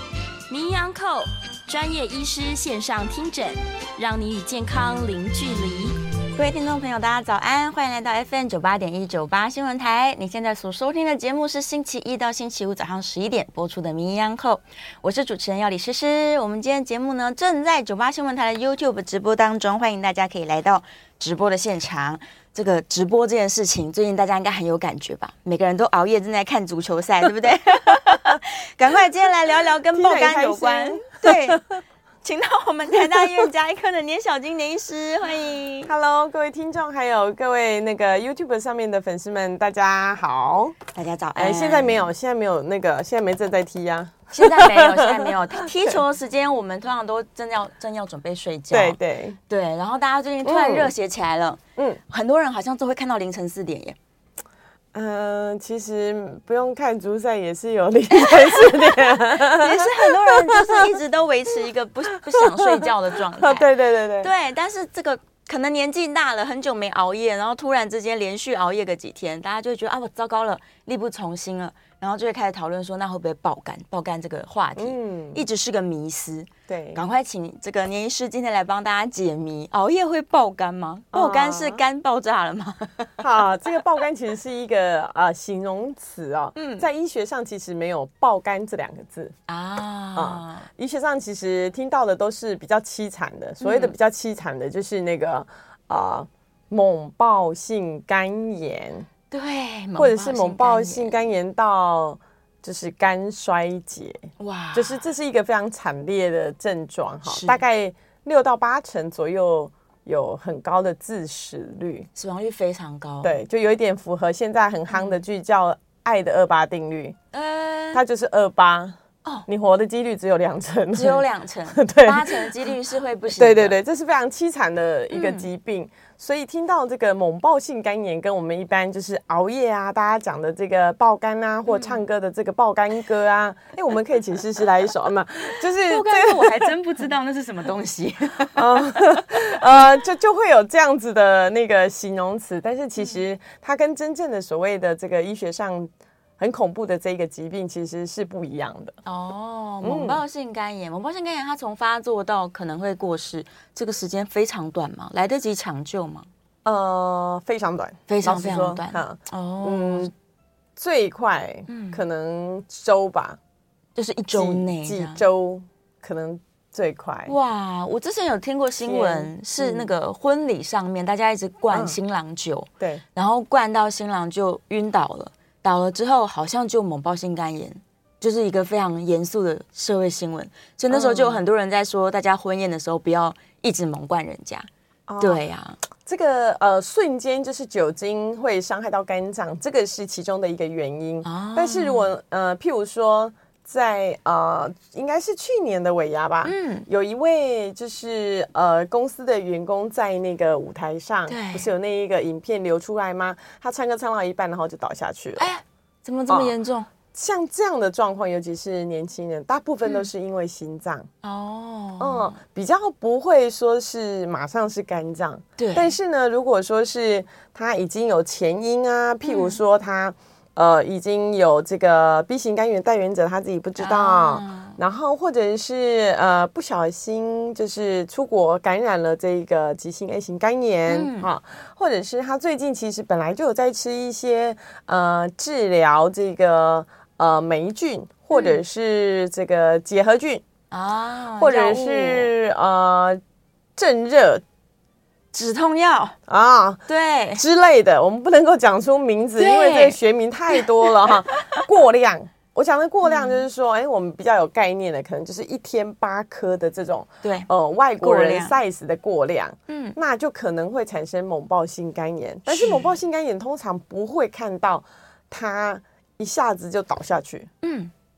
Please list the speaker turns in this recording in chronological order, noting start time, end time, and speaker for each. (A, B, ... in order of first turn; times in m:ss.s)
0:00.5-0:06.0 A
0:06.4-0:31.6 B
0:28.1-0:28.4 C
0:29.9-0:31.8 C
0:32.2-0:35.9 B
0:32.9-0:33.5 C
0:35.8-0:40.8 C
0:40.9-0:42.1 B
0:41.4-0:46.0 C
0:44.3-0:54.0 B
0:48.7-0:49.4 C
0:50.4-0:50.9 C
0:54.9-1:00.9 C
0:58.1-1:03.6 B
1:02.2-1:04.3 C
1:04.2-1:23.2 B
1:14.8-1:15.4 C
1:16.7-1:17.0 C
1:21.1-1:21.8 C
1:23.2-1:29.3 C
1:26.6-1:26.8 B
1:29.5-1:30.7 B
1:30.1-1:39.1 C
1:33.6-1:33.9 B
1:39.3-1:41.2 B
1:40.0-1:52.1 C
1:44.4-1:45.1 B
1:47.2-1:47.6 B
1:52.1-1:53.4 B
1:53.2-1:57.2 C
1:54.9-1:55.2 B
1:57.3-1:58.0 B
1:57.9-2:02.7 C
2:00.9-2:03.8 B
2:03.3-2:16.7 C
2:05.1-2:05.5 B
2:11.7-2:12.0 B
2:15.8-2:19.5 B
2:18.5-2:29.0 C
2:29.0-2:36.3 B
2:29.8-2:30.2 C
2:36.6-2:40.1 C
2:38.1-2:40.1 B
2:40.8-2:43.4 C
2:41.7-2:42.0 B
2:44.0-2:45.2 B
2:44.3-2:47.3 C
2:47.2-3:04.7 B
2:48.8-2:49.9 C
2:51.7-2:52.0 C
3:00.9-3:01.4 C
3:05.1-3:05.4 C
3:05.2-3:05.8 B
3:06.0-3:25.5 C
3:11.2-3:12.1 B
3:16.4-3:16.9 B
3:21.3-3:21.7 B
3:25.4-3:26.9 B
3:26.3-3:26.5 C
3:27.1-3:31.1 C
3:31.2-3:32.4 B
3:32.0-4:00.4 C
3:35.6-3:35.9 B
3:39.2-3:39.6 B
3:43.8-3:44.8 B
3:50.9-3:51.3 B
3:58.3-3:58.6 B
4:00.7-4:02.3 B
4:01.4-4:03.2 C
4:03.8-4:04.4 C
4:05.3-4:06.2 B
4:06.3-4:06.8 C
4:06.9-4:07.4 B
4:07.4-4:27.5 C
4:09.4-4:10.0 B
4:10.5-4:11.6 B
4:13.0-4:13.4 B
4:17.2-4:17.5 B
4:18.0-4:18.6 B
4:19.7-4:20.0 B
4:22.5-4:22.9 B
4:27.6-4:27.9 B